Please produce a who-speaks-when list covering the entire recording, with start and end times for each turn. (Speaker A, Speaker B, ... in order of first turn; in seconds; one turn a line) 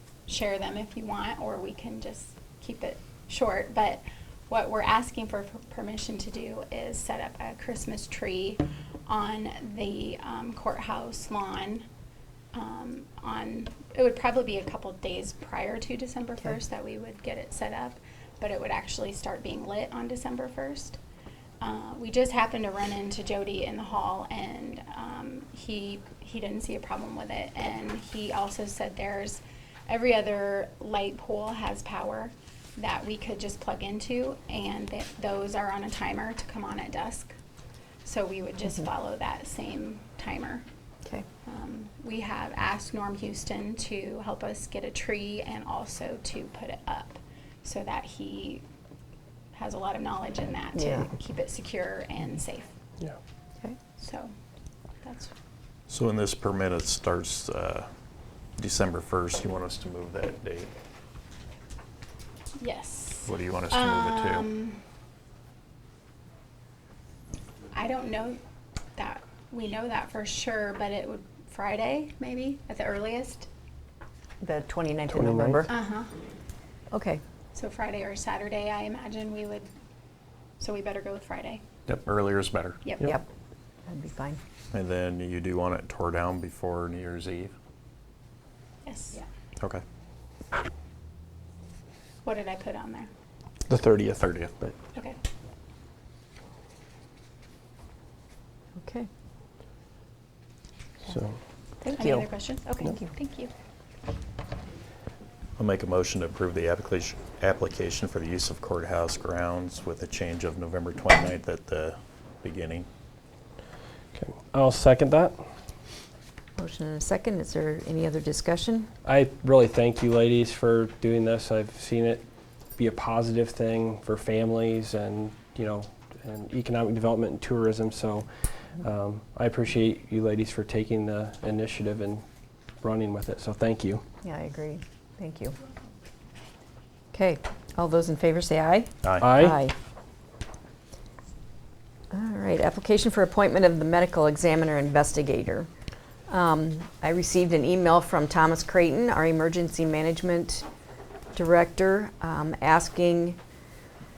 Speaker A: 0.3-11.8
Speaker A: 12.5-21.0
Speaker A: 21.6-37.3
Speaker A: 38.0-40.6
Speaker A: 41.5-48.6
Speaker A: 49.5-52.7
Speaker B: 50.8-51.1
Speaker A: 54.0-54.3
Speaker A: 55.0-55.3
Speaker C: 55.9-57.9
Speaker C: 58.6-60.7
Speaker A: 62.6-64.8
Speaker C: 63.2-64.5
Speaker A: 67.7-68.4
Speaker A: 69.0-73.5
Speaker B: 74.4-75.7
Speaker D: 75.2-75.6
Speaker A: 75.7-76.1
Speaker B: 76.9-77.2
Speaker A: 77.5-79.7
Speaker A: 80.6-81.6
Speaker C: 81.9-82.8
Speaker A: 82.8-83.1
Speaker B: 83.9-84.4
Speaker C: 84.7-87.5
Speaker A: 88.8-89.2
Speaker A: 92.2-93.1
Speaker D: 93.7-94.7
Speaker B: 98.8-99.1
Speaker D: 101.1-101.4
Speaker B: 101.8-102.3
Speaker A: 101.9-103.5
Speaker B: 102.8-103.1
Speaker C: 105.6-112.9
Speaker D: 114.2-115.4
Speaker B: 116.6-118.9
Speaker D: 119.0-122.2
Speaker D: 122.8-128.3
Speaker D: 128.8-132.2
Speaker D: 132.8-134.0
Speaker B: 134.2-135.6
Speaker B: 137.1-139.8
Speaker D: 139.2-139.6
Speaker B: 142.1-145.7
Speaker B: 146.3-150.7
Speaker B: 151.3-153.4